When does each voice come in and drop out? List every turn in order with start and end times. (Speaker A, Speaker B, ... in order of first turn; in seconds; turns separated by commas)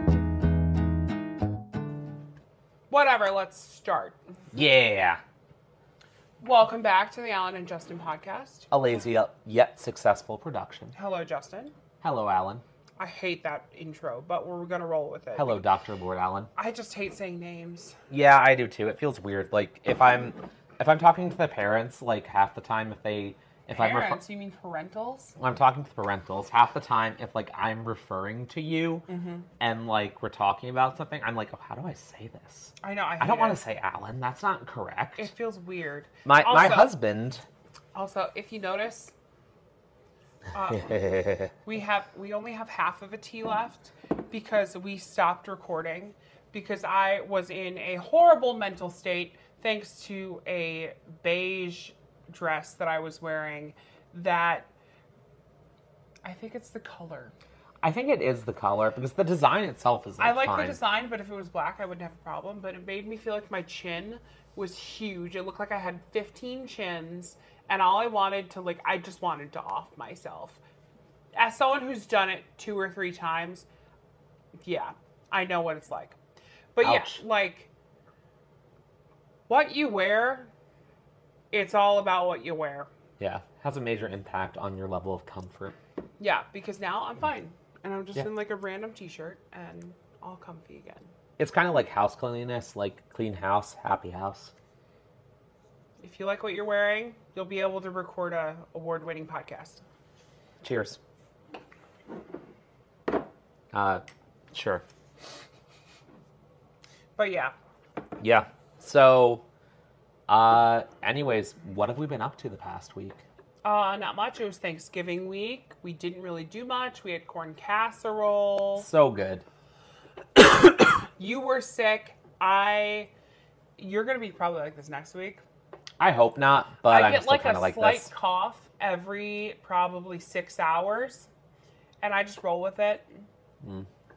Speaker A: 2.9-4.2, Speaker B: 4.5-5.2, Speaker A: 6.4-8.7, Speaker B: 8.7-10.9, Speaker A: 10.9-11.7, Speaker B: 12.0-12.6, Speaker A: 13.0-15.6, Speaker B: 15.3-16.5, Speaker A: 16.6-17.9, Speaker B: 18.1-24.2, Speaker A: 23.7-25.3, Speaker B: 25.4-29.0, Speaker A: 29.1-29.5, Speaker B: 29.6-35.3, Speaker A: 32.8-33.6, Speaker A: 35.2-36.9, Speaker B: 36.2-37.4, Speaker A: 37.9-39.1, Speaker A: 40.5-41.0, Speaker B: 40.8-41.5, Speaker A: 41.6-54.7, Speaker A: 56.2-57.3, Speaker B: 57.8-60.8, Speaker A: 60.2-70.6, Speaker A: 71.3-73.7, Speaker A: 74.6-76.2, Speaker A: 76.7-77.7, Speaker B: 76.8-77.2, Speaker A: 79.5-80.5, Speaker A: 81.5-82.9, Speaker B: 83.2-85.8, Speaker A: 86.2-91.1, Speaker B: 91.4-94.5, Speaker A: 96.0-99.8, Speaker B: 100.6-101.0, Speaker B: 103.7-104.8, Speaker A: 107.2-107.5, Speaker B: 108.2-109.4, Speaker B: 110.3-113.2, Speaker A: 113.6-118.9, Speaker B: 118.8-119.4, Speaker A: 121.0-123.1, Speaker A: 123.8-125.4, Speaker B: 126.0-128.1, Speaker A: 126.8-131.3, Speaker A: 132.0-133.2